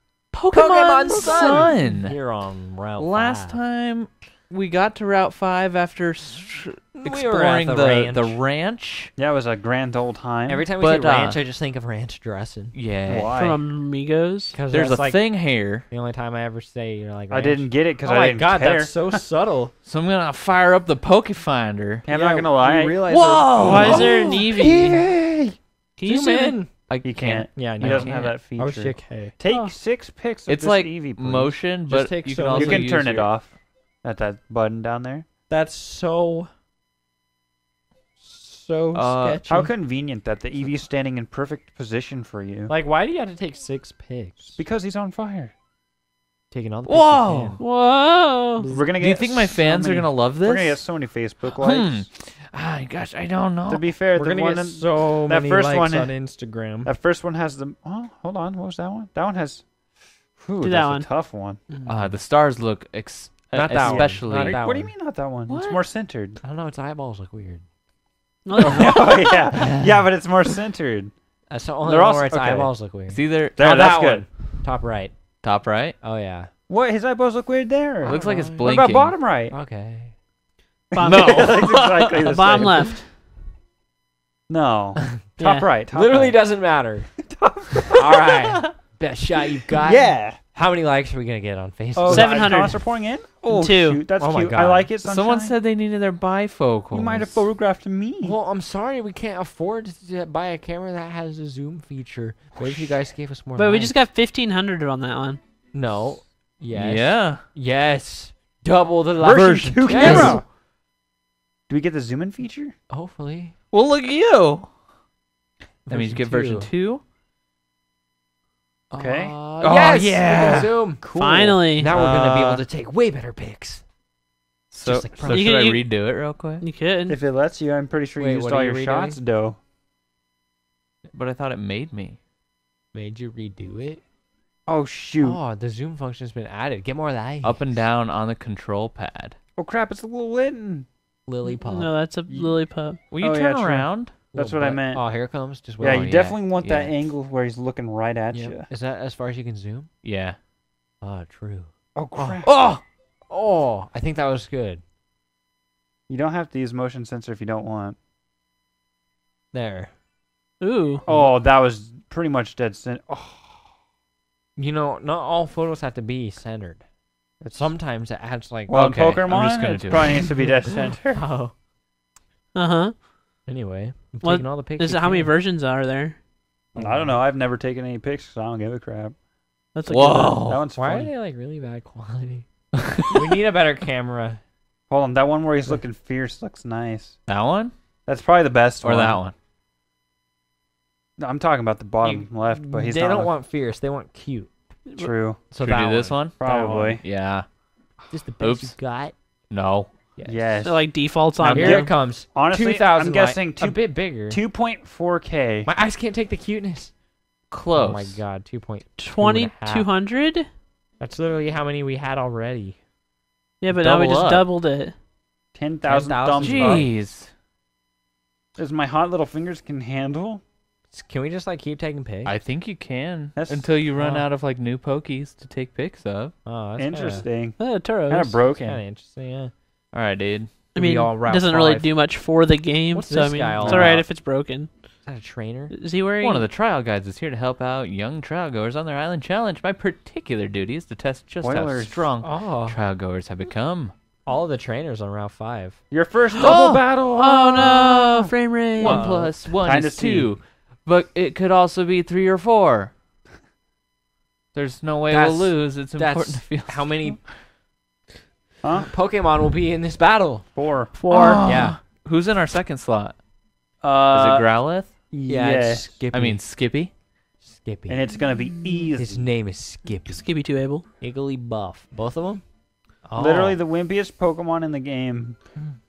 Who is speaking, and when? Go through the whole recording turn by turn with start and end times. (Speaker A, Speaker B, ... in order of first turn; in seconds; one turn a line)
Speaker A: 0.3-1.7
Speaker B: 0.5-2.2
Speaker C: 1.1-3.6
Speaker B: 3.0-9.1
Speaker C: 6.9-8.4
Speaker D: 9.2-10.6
Speaker C: 10.5-12.8
Speaker B: 10.8-11.4
Speaker B: 12.7-13.3
Speaker D: 13.1-13.6
Speaker A: 13.3-14.6
Speaker C: 14.5-15.2
Speaker B: 14.7-15.9
Speaker C: 15.9-19.7
Speaker D: 17.3-19.2
Speaker B: 19.8-22.1
Speaker D: 22.0-25.6
Speaker C: 22.1-24.4
Speaker B: 23.1-24.4
Speaker A: 23.6-25.0
Speaker A: 26.0-26.6
Speaker C: 26.0-26.7
Speaker B: 26.9-28.3
Speaker D: 27.0-31.6
Speaker C: 27.5-29.3
Speaker A: 29.5-29.7
Speaker B: 30.5-33.3
Speaker C: 31.9-32.9
Speaker D: 32.5-35.2
Speaker C: 35.5-36.5
Speaker C: 38.2-39.7
Speaker B: 38.9-39.4
Speaker D: 39.5-42.7
Speaker C: 42.7-44.6
Speaker D: 44.5-45.5
Speaker C: 46.5-47.6
Speaker B: 46.9-47.6
Speaker A: 47.6-48.7
Speaker D: 48.7-52.0
Speaker B: 49.0-50.8
Speaker B: 51.5-53.8
Speaker D: 53.7-56.1
Speaker C: 54.1-56.9
Speaker D: 56.8-59.6
Speaker D: 60.4-61.6
Speaker A: 60.6-61.1
Speaker B: 61.9-64.7
Speaker C: 63.5-64.9
Speaker D: 63.8-66.4
Speaker B: 65.5-65.8
Speaker C: 66.4-67.6
Speaker A: 68.5-69.5
Speaker D: 68.6-71.1
Speaker C: 71.5-75.2
Speaker D: 71.8-72.7
Speaker B: 73.1-73.7
Speaker D: 73.6-74.2
Speaker B: 75.4-76.0
Speaker C: 76.0-76.5
Speaker D: 76.7-79.5
Speaker C: 78.0-78.8
Speaker B: 78.0-79.2
Speaker C: 79.5-80.1
Speaker D: 80.9-83.0
Speaker A: 80.9-83.1
Speaker B: 81.0-82.6
Speaker D: 84.5-86.4
Speaker A: 85.4-85.7
Speaker C: 85.9-87.1
Speaker D: 87.2-88.5
Speaker C: 87.8-92.6
Speaker D: 89.8-90.4
Speaker D: 91.9-95.5
Speaker A: 92.1-92.9
Speaker A: 93.5-94.0
Speaker C: 94.2-94.9
Speaker B: 95.0-97.4
Speaker D: 96.9-98.3
Speaker C: 98.2-104.0
Speaker A: 103.5-105.4
Speaker C: 105.7-110.4
Speaker B: 106.7-107.4
Speaker D: 109.2-110.4
Speaker B: 109.9-110.4
Speaker D: 111.7-112.7
Speaker C: 112.9-113.5
Speaker B: 113.7-114.7
Speaker C: 115.9-116.7
Speaker B: 115.9-117.0
Speaker D: 118.9-119.3
Speaker C: 118.9-121.0
Speaker B: 119.6-120.8
Speaker D: 120.3-121.7
Speaker A: 121.1-121.9
Speaker C: 121.8-123.8
Speaker B: 121.9-122.6
Speaker B: 124.7-126.6
Speaker C: 124.8-125.6
Speaker A: 125.2-125.9
Speaker A: 126.6-127.2
Speaker D: 127.1-129.6
Speaker C: 128.2-129.2
Speaker B: 131.1-132.2
Speaker C: 132.9-134.0
Speaker D: 134.7-135.4
Speaker C: 135.2-137.8
Speaker B: 137.4-139.3
Speaker D: 139.6-140.9
Speaker C: 141.3-141.9
Speaker A: 141.6-143.0
Speaker D: 142.3-145.0
Speaker B: 143.1-144.1
Speaker C: 144.3-146.1
Speaker D: 145.8-148.7
Speaker B: 145.8-146.9
Speaker C: 148.3-149.9
Speaker B: 150.0-150.4
Speaker C: 151.0-154.8
Speaker D: 151.9-152.6
Speaker B: 152.4-152.8
Speaker D: 156.1-158.0
Speaker C: 159.5-159.9
Speaker A: 160.6-161.0
Speaker D: 161.1-163.6
Speaker C: 161.1-161.4
Speaker C: 164.6-166.8
Speaker D: 167.4-167.7
Speaker C: 167.5-169.1
Speaker D: 168.7-171.2
Speaker B: 168.7-170.4
Speaker C: 171.1-171.5
Speaker A: 172.5-172.9
Speaker C: 173.5-175.3
Speaker A: 174.2-176.2
Speaker C: 176.7-177.2
Speaker D: 176.7-179.1
Speaker A: 179.7-180.4
Speaker B: 179.9-180.6
Speaker D: 180.4-181.1
Speaker C: 180.7-184.4
Speaker D: 184.9-187.2
Speaker B: 187.3-187.7
Speaker D: 188.1-189.2
Speaker B: 188.8-189.3
Speaker D: 191.2-193.3
Speaker C: 192.0-194.5
Speaker A: 194.8-195.1
Speaker D: 195.0-195.4
Speaker C: 195.5-196.9
Speaker B: 195.6-197.4
Speaker D: 196.4-197.0
Speaker C: 198.1-199.1
Speaker B: 198.4-198.7
Speaker B: 199.5-199.9
Speaker C: 200.1-200.7
Speaker D: 200.2-200.8
Speaker A: 200.6-201.9
Speaker D: 201.4-205.7
Speaker C: 201.4-204.4
Speaker C: 205.7-206.9
Speaker B: 207.5-208.2
Speaker C: 207.7-209.9
Speaker A: 209.0-210.5
Speaker C: 211.0-212.8
Speaker A: 213.6-214.9
Speaker B: 213.7-214.4
Speaker D: 215.5-216.9
Speaker C: 215.8-216.9
Speaker B: 216.4-217.3
Speaker D: 218.6-220.4
Speaker C: 220.9-222.3
Speaker B: 222.2-226.3
Speaker D: 223.3-223.7
Speaker C: 223.9-224.3
Speaker C: 226.4-227.2
Speaker D: 226.8-228.8
Speaker A: 227.6-228.4
Speaker C: 228.6-229.5
Speaker B: 229.9-230.5
Speaker C: 230.7-231.9
Speaker A: 230.7-234.7
Speaker C: 232.9-234.1
Speaker D: 233.6-234.0
Speaker C: 235.1-235.7
Speaker A: 235.7-236.5
Speaker B: 236.2-243.9
Speaker D: 241.4-242.0
Speaker C: 242.2-242.8
Speaker C: 244.3-245.8
Speaker D: 245.9-250.3
Speaker B: 246.4-246.8
Speaker A: 247.2-249.1
Speaker B: 248.8-252.9
Speaker C: 248.8-249.3
Speaker B: 254.5-257.2
Speaker C: 255.1-257.2
Speaker C: 258.8-260.5
Speaker D: 260.5-260.9
Speaker A: 261.0-261.5
Speaker B: 261.1-263.1
Speaker C: 261.4-261.8
Speaker D: 263.8-264.4
Speaker B: 264.1-264.9
Speaker D: 265.1-266.0
Speaker C: 265.2-266.4
Speaker B: 266.1-266.9
Speaker C: 267.4-268.1
Speaker D: 267.9-269.3
Speaker C: 268.9-270.2
Speaker A: 270.1-270.9
Speaker C: 271.0-272.4
Speaker C: 273.0-273.6
Speaker D: 273.2-275.4